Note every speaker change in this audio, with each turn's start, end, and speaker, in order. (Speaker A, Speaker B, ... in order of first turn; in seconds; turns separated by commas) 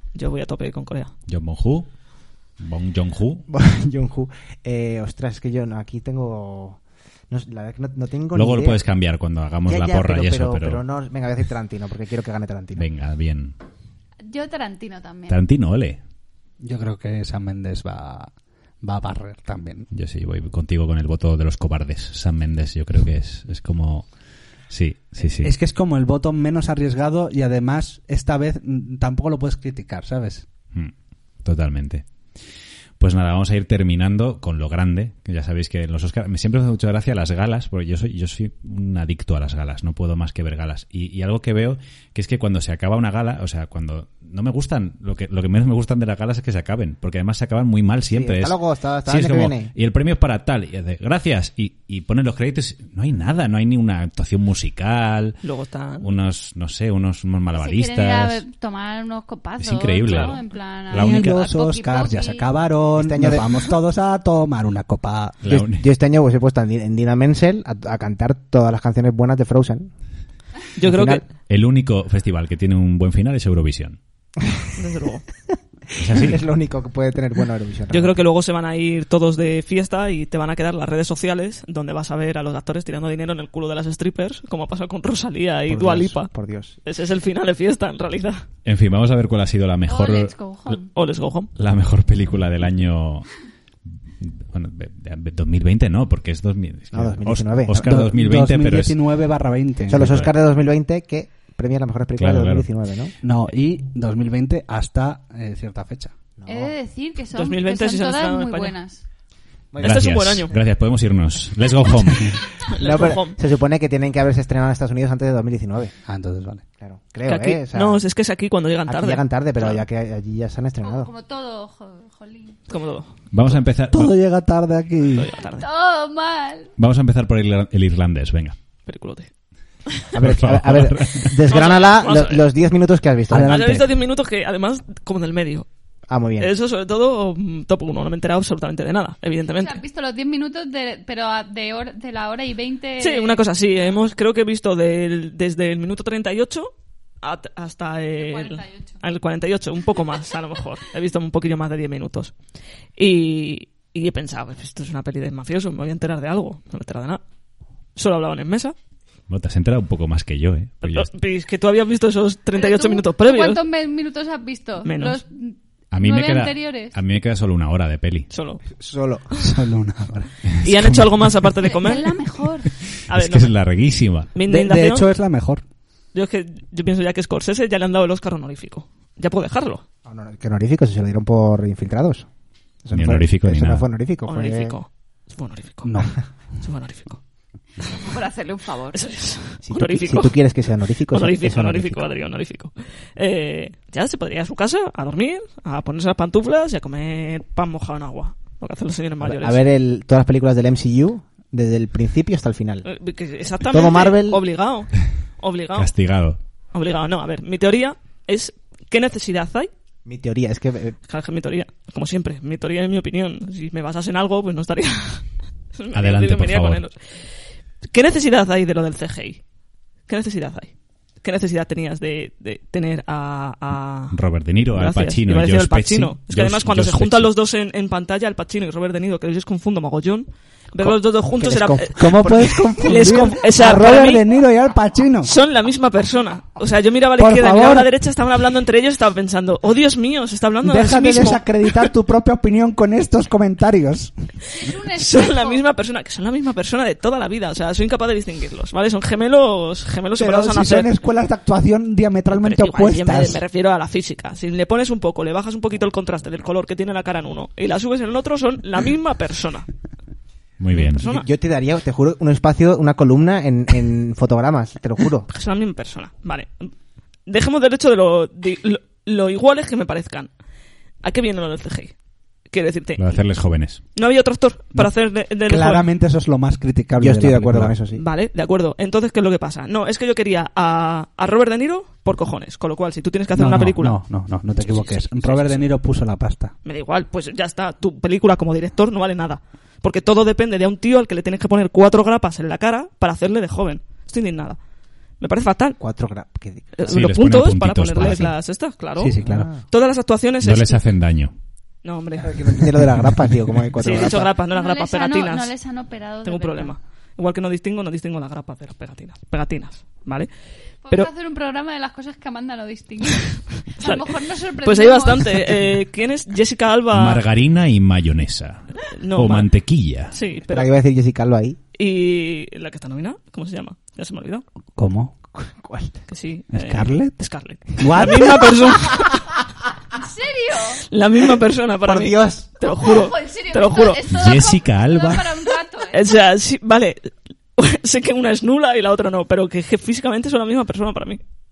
Speaker A: 0.1-1.1, Speaker B: 1.3-1.9, Speaker B: 2.6-3.5, Speaker C: 3.5-6.8, Speaker C: 7.3-8.8, Speaker B: 8.3-10.8, Speaker C: 9.7-12.9, Speaker B: 12.7-13.5, Speaker D: 14.2-15.4, Speaker B: 15.3-16.0, Speaker E: 16.6-19.9, Speaker B: 19.9-24.1, Speaker B: 24.7-25.5, Speaker E: 25.4-30.5, Speaker B: 30.7-32.1, Speaker B: 33.0-55.4, Speaker C: 48.1-49.7, Speaker A: 55.4-56.1, Speaker B: 56.0-58.4, Speaker D: 57.5-62.5, Speaker B: 59.6-61.4, Speaker E: 60.9-65.4, Speaker C: 63.0-63.6, Speaker B: 65.4-65.8, Speaker C: 65.5-69.9, Speaker A: 70.8-71.2, Speaker C: 70.8-71.2, Speaker B: 71.5-74.0, Speaker A: 74.8-75.2, Speaker C: 75.9-78.2, Speaker B: 76.0-76.5, Speaker A: 77.9-86.3, Speaker C: 85.7-86.8, Speaker A: 86.8-88.5, Speaker B: 88.6-90.8, Speaker D: 89.9-90.9, Speaker A: 90.9-91.5, Speaker B: 91.5-93.3, Speaker B: 94.2-99.0, Speaker C: 96.9-98.0, Speaker E: 97.8-100.2, Speaker C: 99.9-103.1, Speaker B: 99.9-100.3, Speaker B: 102.2-102.7, Speaker E: 103.2-106.1, Speaker C: 106.4-106.7, Speaker D: 106.5-109.0, Speaker A: 107.3-108.7, Speaker C: 109.7-110.6, Speaker A: 109.8-110.5, Speaker B: 109.8-112.4, Speaker A: 112.6-113.4, Speaker C: 112.7-115.9, Speaker E: 116.0-116.6, Speaker C: 116.8-118.0, Speaker A: 117.2-119.8, Speaker C: 118.9-121.1, Speaker D: 120.8-122.6, Speaker A: 122.7-123.1, Speaker B: 123.3-124.1, Speaker E: 123.9-125.3, Speaker A: 125.1-125.7, Speaker D: 125.5-126.7, Speaker B: 126.8-128.6, Speaker A: 128.8-129.3, Speaker C: 130.1-133.8, Speaker B: 130.2-131.4, Speaker A: 131.5-132.5, Speaker E: 133.3-133.9, Speaker A: 133.4-135.7, Speaker C: 136.1-136.5, Speaker A: 136.4-139.8, Speaker D: 139.5-143.9, Speaker A: 143.0-146.7, Speaker A: 147.2-152.3, Speaker D: 148.2-149.0, Speaker A: 153.0-157.2, Speaker A: 157.9-158.7, Speaker B: 159.3-161.1, Speaker A: 160.8-163.6, Speaker D: 162.5-167.0, Speaker A: 164.8-165.2, Speaker B: 165.9-168.3, Speaker A: 168.3-168.6, Speaker C: 168.7-169.3, Speaker E: 169.3-171.3, Speaker A: 170.6-172.2, Speaker D: 171.7-172.7, Speaker A: 173.1-173.5, Speaker B: 173.1-174.3, Speaker A: 174.3-175.1, Speaker E: 174.5-175.6, Speaker A: 176.1-179.8, Speaker C: 180.0-182.3, Speaker C: 182.8-184.8, Speaker B: 182.9-183.9, Speaker A: 184.2-186.1, Speaker E: 185.8-186.1, Speaker A: 186.6-187.2, Speaker D: 187.8-189.0, Speaker A: 188.9-190.4, Speaker C: 189.6-192.1, Speaker A: 191.1-199.6, Speaker C: 199.2-202.9, Speaker A: 202.8-205.9, Speaker C: 203.7-204.4, Speaker B: 205.8-206.4, Speaker A: 206.7-209.7, Speaker C: 210.1-211.0, Speaker A: 211.1-217.2, Speaker B: 215.9-216.8, Speaker A: 217.9-219.4, Speaker A: 220.1-224.2, Speaker B: 224.1-227.3, Speaker A: 224.7-234.3, Speaker C: 231.4-232.5, Speaker E: 231.9-235.3, Speaker A: 235.2-241.9, Speaker E: 237.2-237.9, Speaker E: 240.6-244.1, Speaker D: 244.5-245.6, Speaker A: 244.9-250.9, Speaker E: 250.2-253.4, Speaker A: 252.3-259.7, Speaker B: 260.6-261.1, Speaker A: 260.7-261.3, Speaker C: 261.0-265.3, Speaker A: 265.3-266.7, Speaker A: 267.2-270.3, Speaker A: 271.0-271.9, Speaker A: 272.5-273.2, Speaker B: 272.9-273.8, Speaker A: 273.9-275.9, Speaker E: 275.4-277.8, Speaker C: 277.0-278.0, Speaker A: 277.9-284.0, Speaker E: 283.3-286.5, Speaker A: 284.6-285.6, Speaker A: 286.6-294.6, Speaker A: 295.2-295.8, Speaker C: 295.8-297.0, Speaker A: 296.8-300.8, Speaker B: 296.9-298.3, Speaker E: 299.0-299.5, Speaker C: 299.2-299.6, Speaker B: 300.4-301.3, Speaker A: 301.8-302.6, Speaker C: 302.2-304.3, Speaker A: 303.8-305.5, Speaker D: 304.5-306.7, Speaker A: 306.2-310.3, Speaker D: 310.9-315.6, Speaker A: 313.8-317.2, Speaker B: 316.9-320.1, Speaker A: 318.8-319.5, Speaker A: 320.1-320.7, Speaker C: 320.5-321.6, Speaker A: 321.8-324.4, Speaker E: 324.8-325.1, Speaker C: 325.3-326.0, Speaker A: 326.1-329.3, Speaker E: 326.5-327.1, Speaker E: 327.8-328.5, Speaker D: 329.9-330.8, Speaker A: 330.9-334.0, Speaker C: 331.8-332.5, Speaker D: 332.6-336.1, Speaker B: 334.1-335.4, Speaker A: 335.9-341.2